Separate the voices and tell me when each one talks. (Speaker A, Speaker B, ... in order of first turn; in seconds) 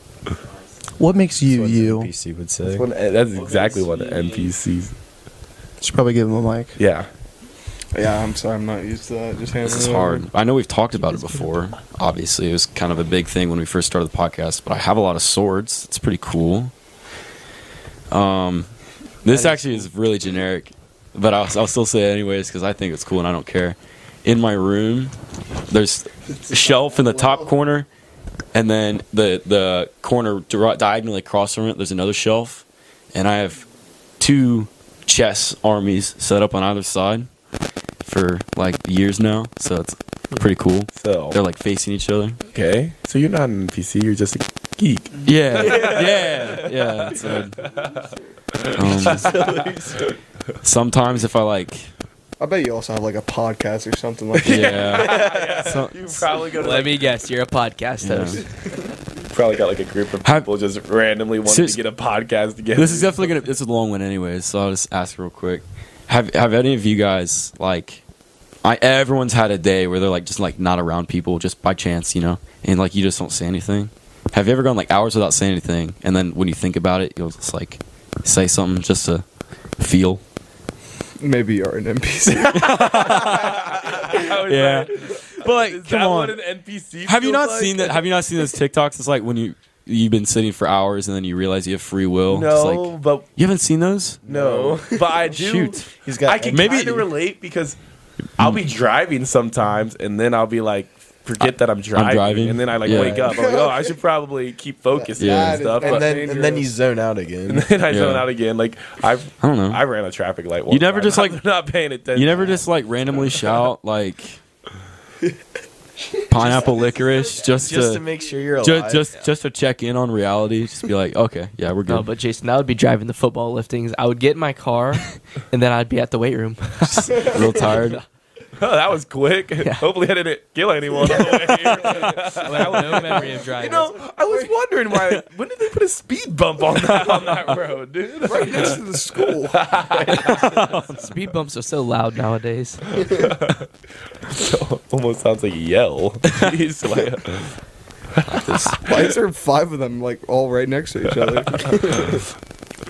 Speaker A: 0.2-0.8, 3.2-4.5, 9.6-16.7, 18.1-18.7, 19.2-25.1, 25.7-27.9, 28.5-33.6, 34.2-37.3, 38.0-42.4, 45.2-47.5, 48.7-49.6, 50.6-51.9, 54.4-56.2, 58.0-58.4, 61.5-61.8, 62.7-68.0, 68.6-79.2, 79.8-80.2, 82.4-86.4, 87.0-94.2, 95.3-95.8, 96.5-97.1, 101.4-103.3, 105.2-105.8, 107.9-108.3, 109.4-109.8, 110.7-111.4, 112.1-114.4, 116.2-118.0, 118.6-122.1, 126.9-128.0, 132.5-133.4, 140.2-141.0, 148.3-148.8
Speaker B: 1.0-2.1, 5.8-6.8
Speaker C: 1.4-2.9, 45.5-46.2, 49.0-50.0, 55.0-55.8, 94.2-96.9, 102.9-103.3, 105.8-107.7, 117.6-119.1
Speaker D: 2.6-4.9, 6.8-7.1, 41.0-41.4, 42.5-49.6, 54.4-57.2, 59.3-63.5, 82.4-88.0, 92.3-93.3, 94.2-97.8, 98.4-106.3, 107.5-112.6, 128.6-140.5, 143.1-143.7, 144.3-147.5, 148.3-149.0
Speaker E: 7.9-10.3, 26.4-27.5, 52.4-55.0, 81.2-83.2, 103.2-103.9, 104.9-106.7, 134.2-134.5, 138.2-139.7, 148.8-152.1
Speaker F: 56.4-58.4, 121.9-128.0, 129.6-129.9, 131.0-134.0, 140.3-143.1